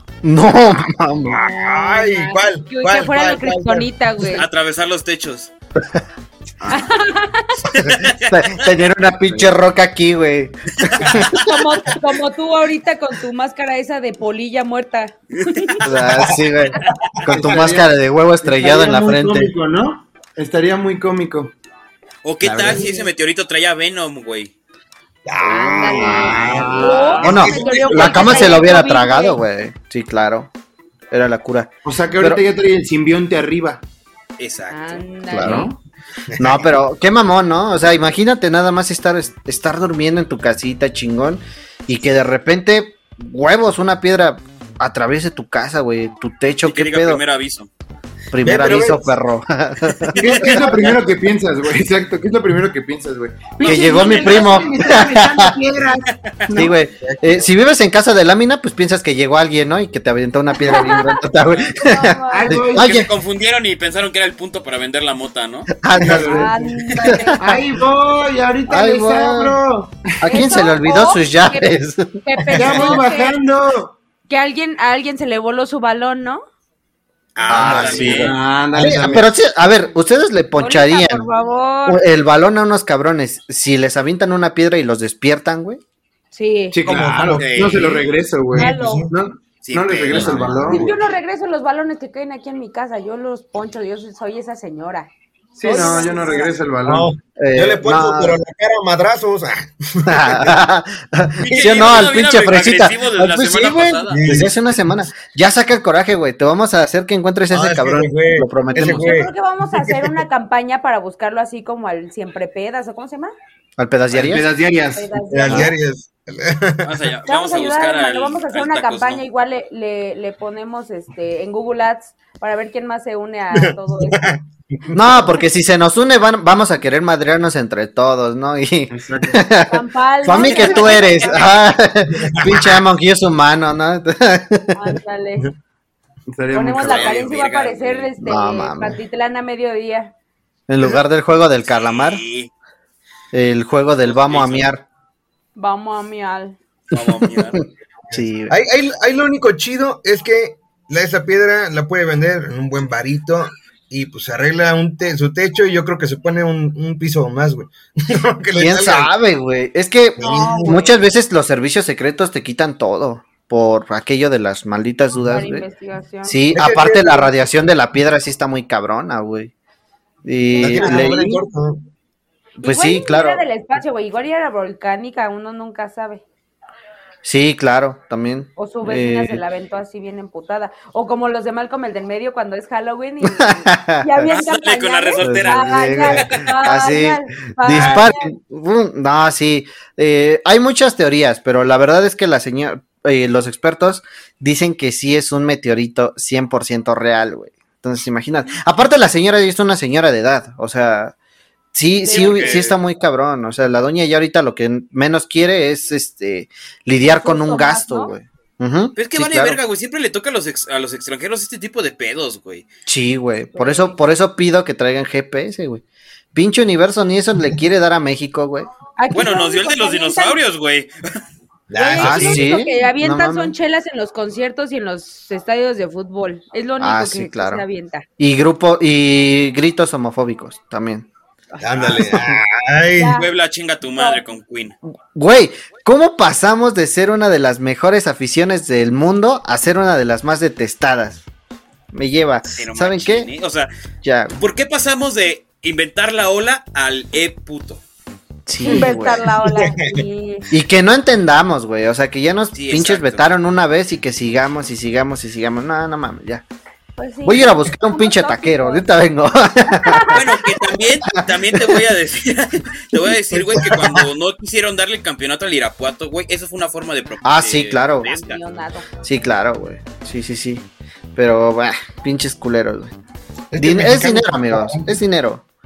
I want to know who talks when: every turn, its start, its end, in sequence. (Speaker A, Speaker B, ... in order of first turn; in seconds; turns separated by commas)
Speaker A: 0.2-1.5, Speaker B: 1.3-3.9, Speaker C: 1.3-4.5, Speaker D: 4.3-5.5, Speaker C: 6.7-7.6, Speaker D: 7.7-8.7, Speaker A: 7.8-11.4, Speaker D: 10.9-11.2, Speaker C: 11.3-15.8, Speaker A: 15.8-19.5, Speaker E: 17.2-17.9, Speaker E: 18.4-21.5, Speaker D: 22.2-24.5, Speaker A: 22.4-22.7, Speaker C: 22.6-23.1, Speaker B: 25.2-28.6, Speaker C: 25.4-29.4, Speaker A: 25.9-26.4, Speaker E: 26.1-27.4, Speaker A: 27.2-30.5, Speaker D: 28.0-28.4, Speaker A: 31.1-32.4, Speaker E: 31.8-33.8, Speaker D: 34.4-35.0, Speaker C: 34.7-35.7, Speaker A: 35.3-35.7, Speaker E: 35.4-35.8, Speaker B: 36.3-36.6, Speaker A: 36.4-47.2, Speaker D: 46.6-47.7, Speaker A: 48.3-50.7, Speaker B: 48.4-49.1, Speaker D: 50.1-50.5, Speaker E: 50.1-56.8, Speaker B: 50.4-50.9, Speaker D: 53.6-54.7, Speaker A: 53.6-55.6, Speaker A: 56.5-63.1, Speaker B: 57.0-57.5, Speaker C: 60.6-61.2, Speaker D: 61.5-61.8, Speaker C: 61.8-62.6, Speaker E: 62.3-63.0, Speaker D: 62.8-65.7, Speaker A: 65.8-67.7, Speaker E: 66.0-66.5, Speaker C: 66.2-67.4, Speaker E: 67.4-70.3, Speaker A: 68.7-69.6, Speaker A: 70.2-72.9, Speaker C: 70.3-71.7, Speaker C: 72.2-73.4, Speaker E: 72.5-73.9, Speaker C: 74.3-76.4, Speaker D: 77.3-78.4, Speaker A: 77.5-81.3, Speaker B: 77.5-78.2, Speaker E: 77.5-79.3, Speaker B: 78.8-79.1, Speaker C: 80.6-82.0, Speaker A: 81.8-85.8, Speaker C: 86.3-86.8, Speaker E: 86.7-90.9, Speaker B: 86.8-89.1, Speaker D: 87.3-88.0, Speaker C: 88.5-89.1, Speaker D: 89.6-90.7, Speaker A: 90.1-90.7, Speaker C: 90.7-95.1, Speaker E: 95.5-97.1, Speaker C: 95.6-96.5, Speaker A: 95.7-96.0, Speaker B: 96.8-100.6, Speaker A: 97.4-98.4, Speaker A: 100.0-109.1, Speaker D: 101.4-104.2, Speaker B: 101.7-102.0, Speaker B: 104.1-104.9, Speaker B: 107.5-110.1, Speaker C: 108.8-113.3, Speaker A: 113.8-114.5, Speaker E: 114.1-115.5, Speaker C: 114.9-115.7, Speaker B: 115.3-117.0, Speaker D: 116.8-119.2, Speaker C: 117.3-124.3, Speaker B: 123.6-124.4, Speaker A: 124.9-134.8, Speaker E: 128.9-129.4, Speaker C: 129.7-131.6, Speaker B: 132.2-132.8, Speaker C: 134.7-135.5, Speaker E: 136.3-137.1, Speaker C: 136.5-140.1, Speaker D: 136.8-138.1, Speaker A: 138.2-139.0, Speaker A: 140.7-142.2, Speaker D: 141.7-142.5, Speaker A: 143.3-144.8, Speaker D: 144.0-144.7, Speaker C: 145.6-146.6, Speaker D: 146.9-147.6, Speaker A: 146.9-147.6, Speaker B: 148.1-159.1, Speaker A: 148.1-148.5, Speaker A: 158.6-165.7, Speaker B: 160.2-160.9, Speaker C: 160.2-160.9, Speaker C: 165.3-166.4, Speaker A: 166.2-169.5, Speaker B: 166.5-167.3, Speaker A: 170.2-171.3, Speaker C: 170.6-171.1, Speaker B: 170.6-171.8, Speaker A: 172.6-173.4, Speaker C: 172.6-176.2, Speaker A: 177.2-179.4, Speaker C: 178.6-188.3, Speaker A: 183.2-184.3, Speaker D: 184.3-186.5, Speaker A: 185.2-201.1, Speaker A: 201.7-209.6, Speaker C: 202.0-202.6, Speaker D: 202.1-202.8, Speaker C: 207.0-208.1, Speaker D: 208.9-212.7, Speaker A: 212.8-215.8, Speaker C: 213.5-214.0, Speaker A: 216.3-218.7, Speaker C: 219.0-220.4, Speaker D: 219.1-220.9, Speaker B: 221.7-222.4, Speaker C: 221.7-228.1, Speaker A: 222.0-223.5, Speaker A: 226.8-227.6, Speaker A: 228.2-231.1, Speaker B: 231.6-233.2, Speaker A: 231.9-232.4, Speaker C: 232.9-233.3, Speaker D: 233.2-234.7, Speaker C: 233.9-234.2, Speaker A: 235.1-241.2, Speaker A: 241.9-243.3, Speaker D: 242.5-243.7, Speaker A: 244.0-244.4, Speaker D: 244.4-247.8, Speaker A: 248.4-249.3, Speaker C: 248.6-250.4, Speaker B: 249.4-250.0, Speaker A: 250.5-256.4, Speaker D: 252.5-253.3, Speaker C: 257.0-258.9, Speaker A: 257.2-260.4, Speaker C: 259.7-260.2, Speaker D: 260.1-268.4, Speaker A: 261.1-261.9, Speaker B: 263.3-264.1, Speaker A: 267.2-268.1, Speaker C: 268.0-268.9, Speaker A: 269.0-270.6, Speaker A: 271.1-272.9, Speaker B: 273.5-275.0, Speaker A: 273.6-275.4